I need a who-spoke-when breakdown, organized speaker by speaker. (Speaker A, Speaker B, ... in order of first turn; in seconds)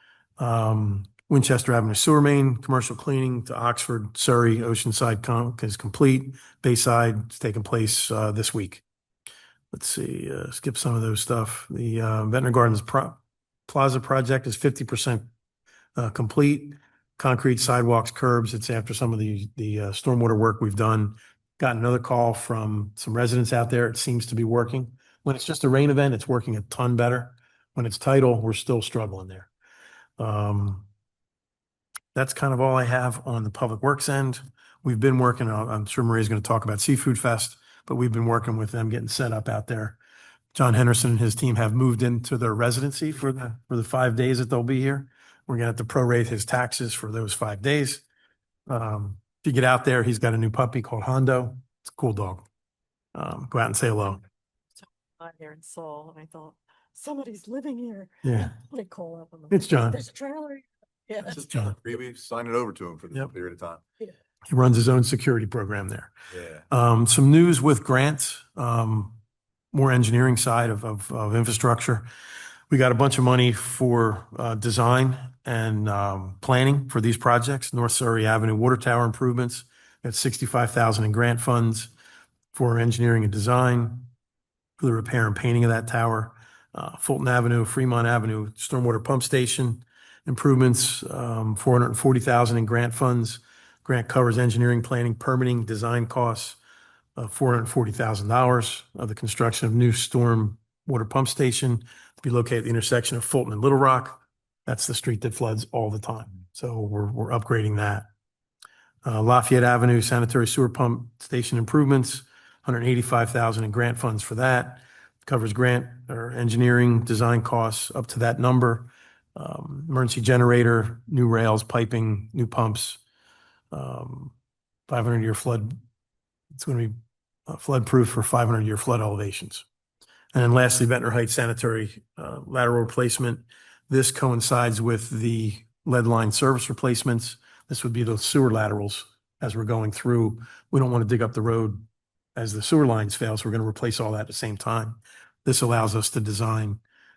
Speaker A: 0.4-8.8, 9.7-15.3, 16.0-29.5, 30.2-30.9, 32.1-40.0, 40.5-48.0, 48.7-52.5, 53.1-54.2, 58.2-58.5, 59.5-60.0, 64.5-66.1, 66.7-69.2, 69.7-72.1, 72.7-81.9, 82.5-84.1, 84.8-96.6, 97.2-108.1, 109.0-123.0, 123.7-124.3, 124.9-125.8, 126.5-127.0, 127.5-129.7, 130.3-141.8, 142.4-146.8
Speaker B: 54.8-61.4
Speaker C: 61.2-63.8, 66.3-66.7